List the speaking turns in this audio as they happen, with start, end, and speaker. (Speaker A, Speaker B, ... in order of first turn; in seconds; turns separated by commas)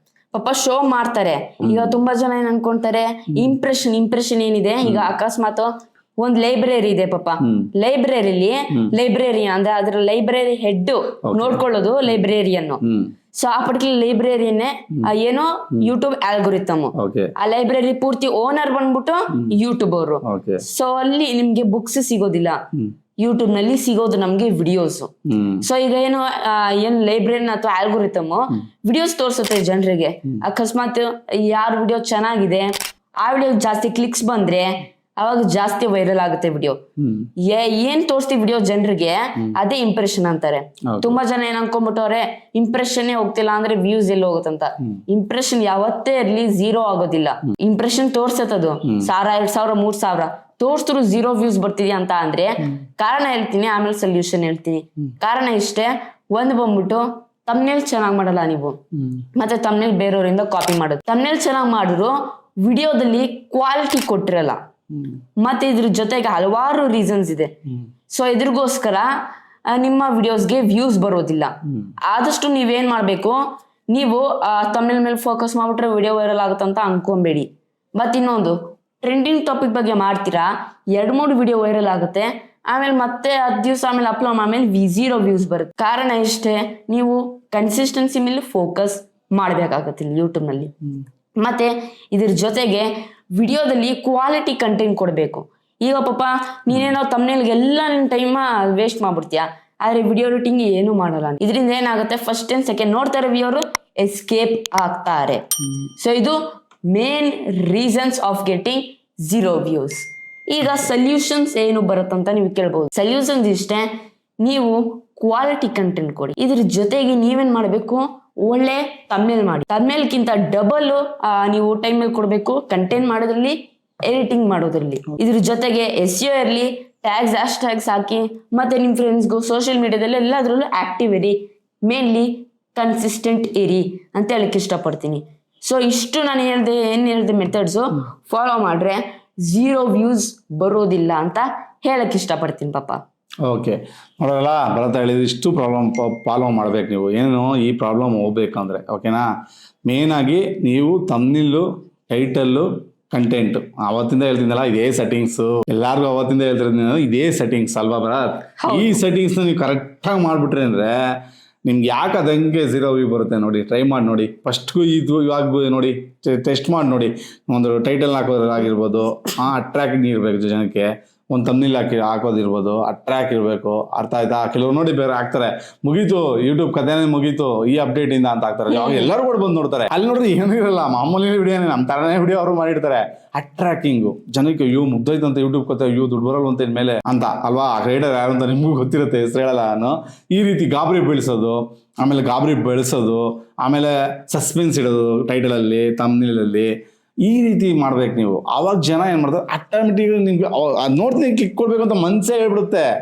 Speaker A: 0.3-12.8, Speaker B: 1.6-2.0, Speaker B: 4.8-5.1, Speaker B: 7.4-7.7, Speaker B: 11.3-11.6, Speaker B: 12.8-13.1, Speaker A: 13.3-22.6, Speaker B: 17.0-17.3, Speaker B: 20.2-20.6, Speaker A: 23.2-36.8, Speaker B: 25.3-25.7, Speaker B: 37.0-37.3, Speaker A: 37.4-58.8, Speaker B: 40.9-41.2, Speaker A: 59.3-64.6, Speaker A: 65.4-69.1, Speaker A: 69.7-113.9, Speaker A: 114.4-143.0, Speaker B: 143.4-149.3, Speaker B: 149.9-160.9, Speaker A: 158.6-159.0, Speaker B: 161.7-202.8, Speaker A: 178.7-179.1